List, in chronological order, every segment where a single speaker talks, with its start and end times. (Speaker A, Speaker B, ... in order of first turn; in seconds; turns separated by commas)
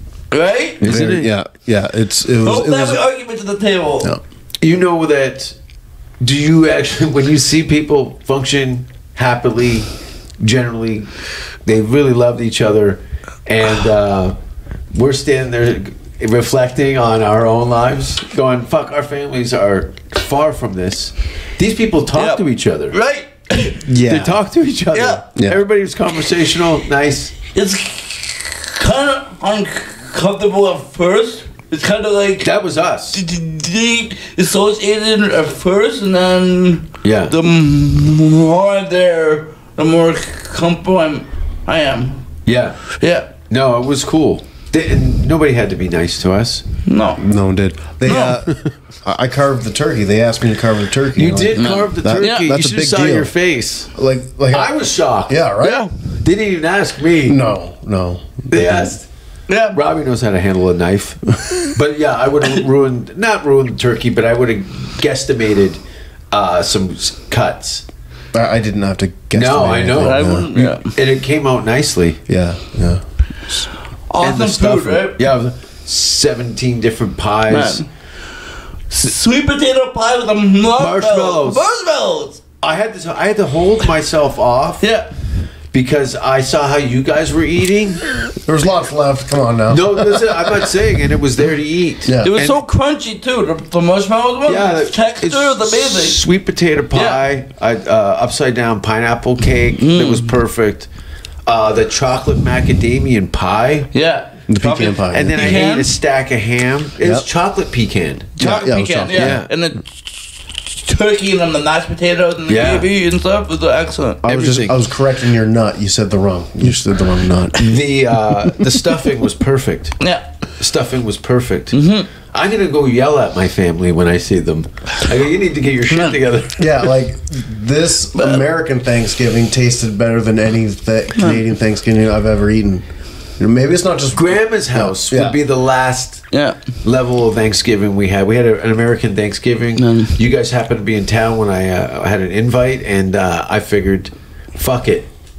Speaker A: 0.3-0.8, Speaker B: 0.8-1.3, Speaker C: 0.8-3.0, Speaker A: 2.4-4.1, Speaker B: 4.6-5.5, Speaker B: 6.2-11.1, Speaker B: 11.6-14.3, Speaker B: 14.9-23.0, Speaker A: 22.1-23.8, Speaker C: 23.9-24.4, Speaker B: 23.9-27.3, Speaker A: 24.9-25.2, Speaker C: 25.4-25.6, Speaker A: 27.5-32.5, Speaker B: 32.4-33.2, Speaker A: 33.1-42.2, Speaker B: 37.0-37.3, Speaker B: 42.5-42.8, Speaker A: 43.0-43.3, Speaker B: 43.5-46.6, Speaker A: 46.9-47.2, Speaker C: 47.2-53.3, Speaker A: 48.0-48.4, Speaker B: 51.1-53.9, Speaker A: 51.6-52.4, Speaker C: 53.9-55.9, Speaker B: 54.5-55.5, Speaker A: 55.6-55.9, Speaker B: 56.0-57.4, Speaker C: 57.2-58.9, Speaker B: 58.5-59.1, Speaker A: 59.5-59.8, Speaker B: 59.7-65.8, Speaker B: 66.3-67.8, Speaker C: 68.3-70.5, Speaker B: 69.3-72.2, Speaker A: 70.0-70.9, Speaker C: 72.3-73.7, Speaker A: 74.1-75.2, Speaker B: 74.2-77.8, Speaker A: 77.5-77.8, Speaker A: 78.9-82.4, Speaker B: 80.8-81.7, Speaker B: 82.6-84.8, Speaker A: 84.8-85.1, Speaker B: 85.7-88.0, Speaker C: 88.5-90.6, Speaker B: 89.7-92.6, Speaker C: 92.0-92.3, Speaker A: 92.2-96.2, Speaker B: 94.5-100.9, Speaker A: 96.9-97.2, Speaker A: 99.8-100.3, Speaker B: 101.5-103.9, Speaker A: 103.9-105.9, Speaker C: 104.5-105.7, Speaker B: 105.1-108.4, Speaker C: 107.0-107.3, Speaker A: 108.4-110.1, Speaker C: 108.4-109.5, Speaker B: 109.1-109.5, Speaker A: 110.8-114.2, Speaker B: 112.5-112.9, Speaker B: 114.2-114.8, Speaker C: 114.2-117.7, Speaker B: 117.6-120.0, Speaker A: 120.0-120.2, Speaker B: 120.6-126.9, Speaker A: 121.7-122.1, Speaker A: 125.9-126.2, Speaker C: 126.6-132.8, Speaker A: 128.2-128.4, Speaker A: 131.2-131.4, Speaker C: 133.4-135.4, Speaker B: 134.1-136.2, Speaker A: 136.3-136.6, Speaker B: 136.8-145.1, Speaker A: 139.8-140.2